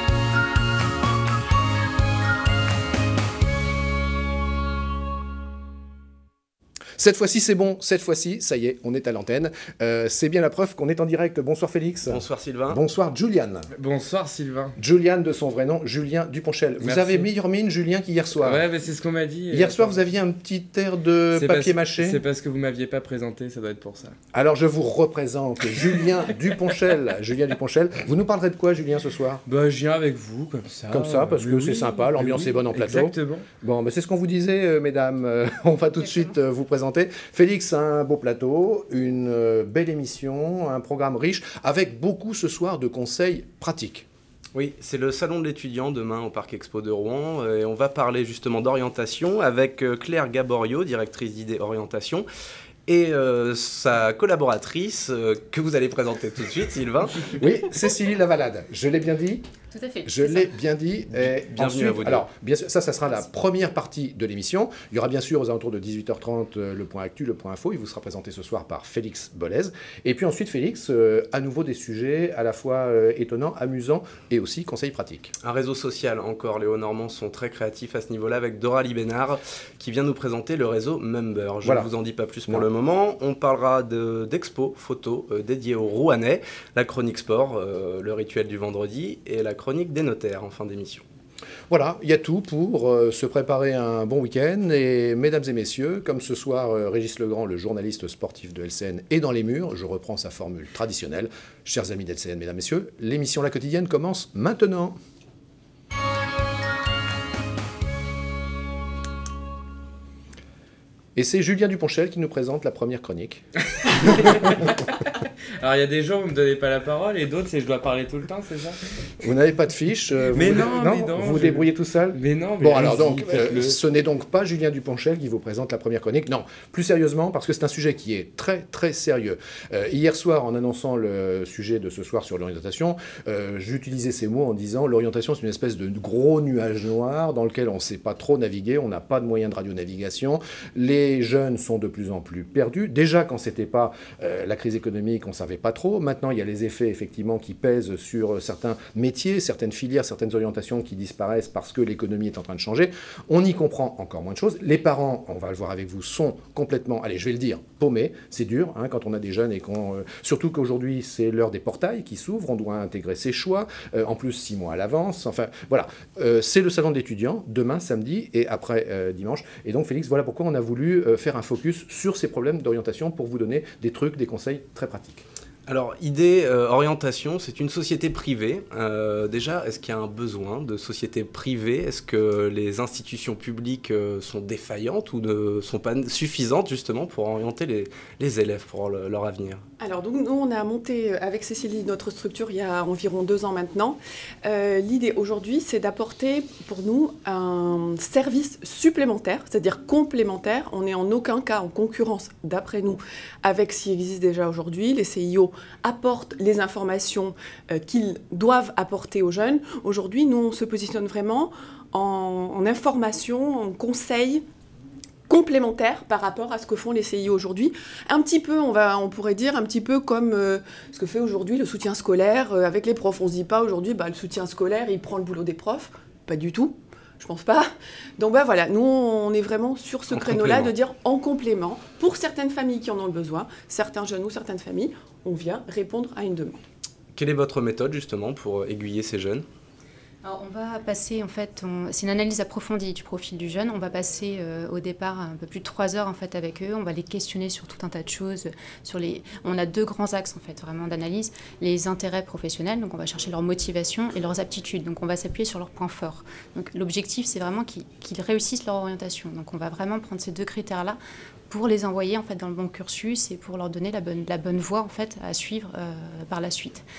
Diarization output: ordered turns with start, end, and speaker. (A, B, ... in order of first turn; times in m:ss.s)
0:07.0-0:13.7 A
0:12.1-0:12.8 B
0:13.8-0:14.8 C
0:14.8-0:18.7 A
0:16.8-0:17.3 C
0:18.4-0:20.0 C
0:19.5-0:22.2 A
0:21.3-0:24.1 C
0:24.3-0:29.4 A
0:29.5-0:33.5 C
0:30.9-0:44.1 A
0:44.5-0:52.2 B
0:52.9-0:57.4 B
0:57.4-0:59.5 A
0:59.7-1:00.5 D
1:00.1-1:15.3 A
1:01.2-1:02.3 B
1:15.4-1:31.0 B
1:21.6-1:21.9 A
1:31.7-1:45.0 A
1:51.2-1:53.4 A
1:53.9-1:54.8 C
1:55.6-1:58.8 C
1:59.2-2:55.2 A
2:00.3-2:03.8 C
2:55.7-3:09.6 B
3:09.8-3:34.4 E
3:35.3-3:56.6 E
3:50.1-3:50.7 B
3:57.1-3:59.4 B
4:00.2-4:21.0 D
4:21.5-4:26.8 D